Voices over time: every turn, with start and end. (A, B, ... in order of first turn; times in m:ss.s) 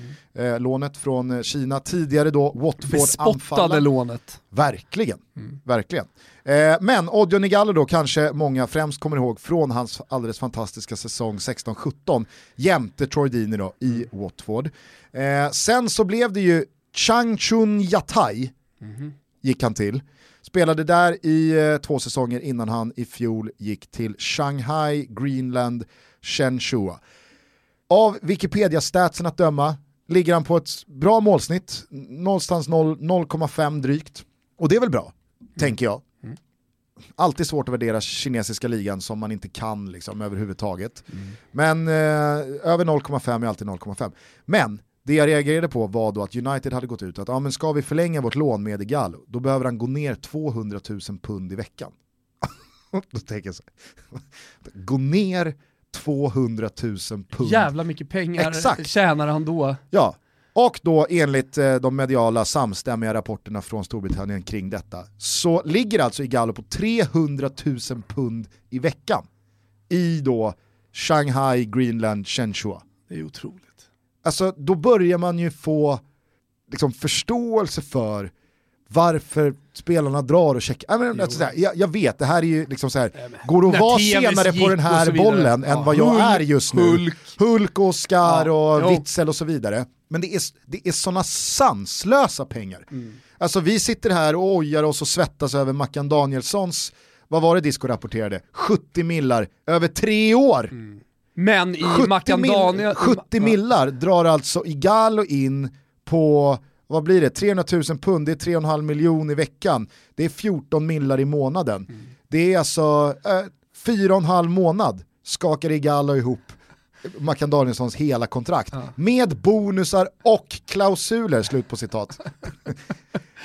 0:00.3-0:03.8 A
0:02.8-0:04.4 B
0:04.5-0:18.5 A
0:18.8-0:19.1 B
0:19.4-0:27.0 A
0:27.9-0:36.0 A
0:37.2-0:57.7 A
0:57.4-0:59.8 B
0:58.4-0:58.9 A
0:59.9-1:09.3 A
1:09.9-1:12.8 A
1:13.1-1:13.8 B
1:14.2-1:16.0 A
1:16.7-1:18.3 A
1:18.9-1:40.7 A
1:21.1-1:21.4 B
1:23.2-1:27.4 B
1:28.2-1:29.0 B
1:40.8-1:43.6 B
1:41.8-2:02.8 A